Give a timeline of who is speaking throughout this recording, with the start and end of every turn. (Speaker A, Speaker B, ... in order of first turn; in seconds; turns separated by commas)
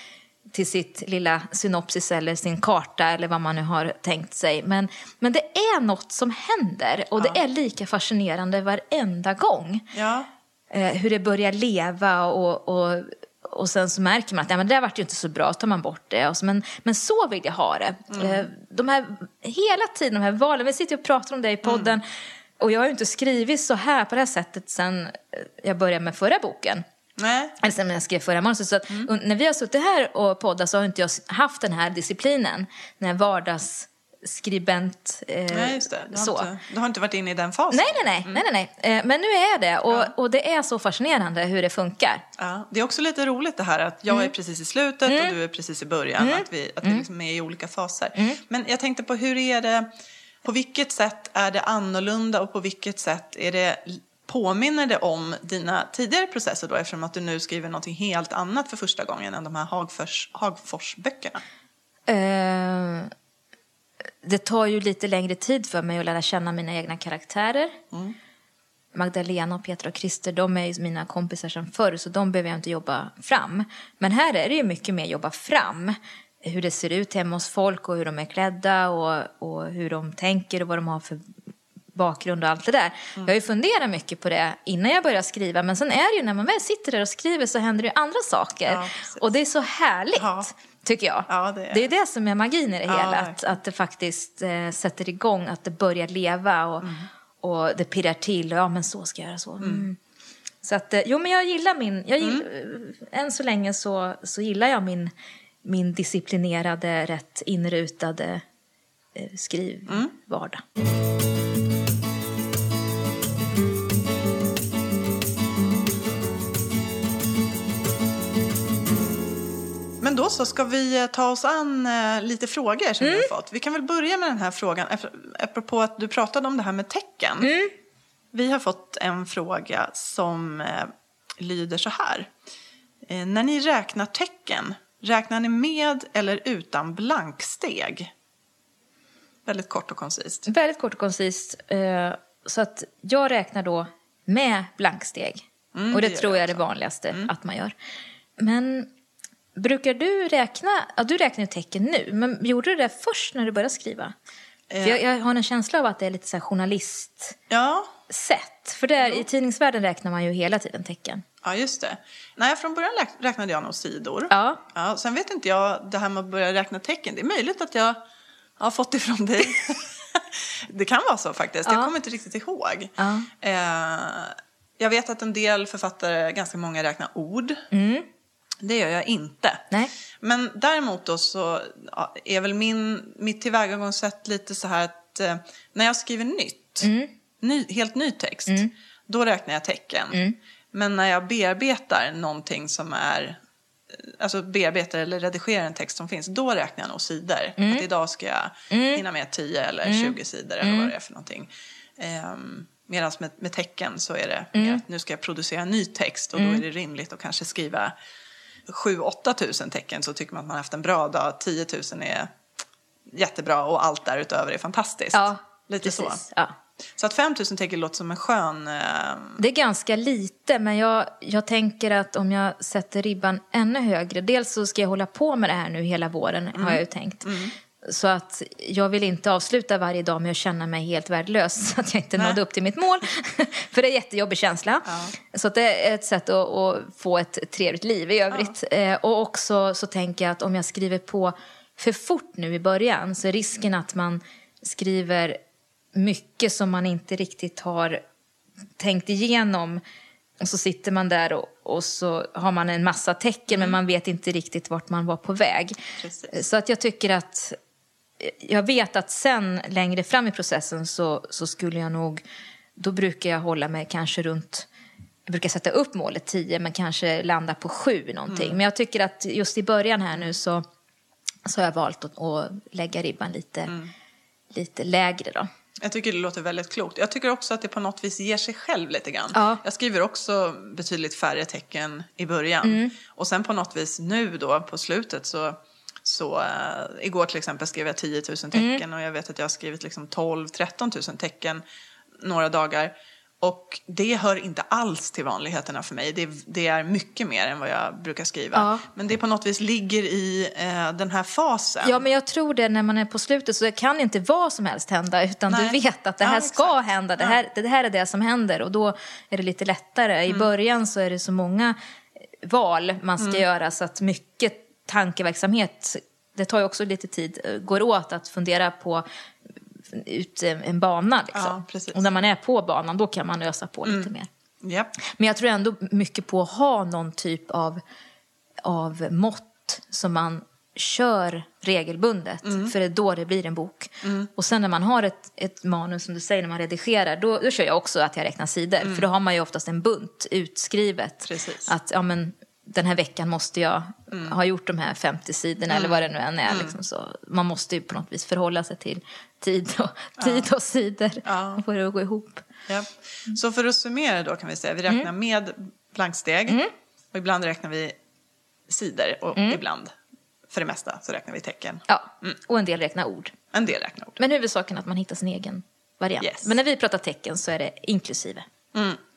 Speaker A: 0.5-9.8, Speaker B: 9.9-10.3, Speaker A: 10.7-22.1, Speaker B: 18.1-18.4, Speaker B: 21.6-21.9, Speaker A: 22.6-26.8, Speaker B: 27.2-27.5, Speaker A: 27.6-36.5, Speaker B: 35.5-38.4, Speaker A: 37.7-42.2, Speaker B: 42.4-49.9, Speaker A: 45.0-45.4, Speaker A: 46.2-47.0, Speaker B: 50.4-61.4, Speaker A: 62.1-63.1, Speaker A: 64.2-67.8, Speaker A: 68.9-81.3, Speaker A: 81.9-96.9, Speaker B: 88.7-89.3, Speaker B: 90.2-90.5, Speaker B: 91.3-91.9, Speaker B: 92.9-93.5, Speaker B: 96.8-97.1, Speaker A: 97.4-100.0, Speaker A: 100.6-105.1, Speaker B: 102.2-102.5, Speaker A: 105.6-108.4, Speaker A: 109.1-110.6, Speaker B: 120.0-127.5, Speaker A: 123.0-123.3, Speaker A: 127.4-127.7, Speaker B: 128.3-132.3, Speaker B: 133.0-138.1, Speaker B: 139.4-140.5, Speaker A: 140.5-147.7, Speaker B: 145.7-147.3, Speaker A: 148.4-148.9, Speaker A: 149.6-154.1, Speaker B: 154.7-155.0, Speaker A: 154.8-157.4, Speaker B: 157.5-157.9, Speaker A: 158.1-161.2, Speaker B: 161.4-168.0, Speaker A: 164.3-164.6, Speaker B: 168.6-177.7, Speaker A: 171.7-171.9, Speaker A: 173.0-173.3, Speaker A: 177.7-178.1, Speaker B: 178.6-179.7, Speaker B: 180.2-186.9, Speaker A: 186.8-187.1, Speaker B: 187.4-190.2, Speaker B: 190.7-193.4, Speaker B: 193.9-207.9, Speaker A: 197.6-197.8, Speaker A: 198.7-199.0, Speaker A: 199.8-200.9, Speaker A: 204.5-204.8, Speaker A: 206.3-206.6, Speaker B: 208.7-212.3, Speaker B: 213.1-216.2, Speaker A: 215.1-216.5, Speaker B: 217.0-219.4, Speaker A: 219.4-245.4, Speaker B: 226.5-227.5, Speaker B: 234.8-235.1, Speaker A: 245.9-248.0, Speaker A: 248.8-249.8, Speaker A: 250.4-255.8, Speaker B: 253.5-253.8, Speaker B: 256.0-256.4, Speaker A: 256.3-257.6, Speaker A: 258.2-262.2, Speaker A: 262.8-264.7, Speaker A: 265.3-270.6, Speaker B: 268.3-268.6, Speaker A: 271.4-273.7, Speaker A: 274.5-275.5, Speaker B: 275.8-291.6, Speaker A: 279.3-279.6, Speaker A: 282.6-282.9, Speaker A: 288.5-288.8, Speaker B: 292.2-302.0, Speaker A: 298.5-298.9, Speaker A: 301.8-311.8, Speaker B: 305.5-307.4, Speaker A: 312.4-319.0, Speaker A: 319.9-324.3, Speaker B: 321.3-322.1, Speaker B: 323.8-324.1, Speaker B: 324.6-324.9, Speaker A: 325.0-327.8, Speaker A: 328.6-352.4, Speaker B: 332.4-332.7, Speaker B: 334.0-334.3, Speaker B: 341.2-341.7, Speaker B: 345.7-346.8, Speaker B: 350.2-350.5, Speaker B: 351.2-351.6, Speaker B: 352.7-356.6, Speaker B: 357.1-358.0, Speaker B: 358.7-359.9, Speaker B: 360.5-362.3, Speaker A: 361.9-363.3, Speaker B: 363.5-364.2, Speaker A: 364.2-368.4, Speaker B: 366.2-366.5, Speaker B: 368.7-369.0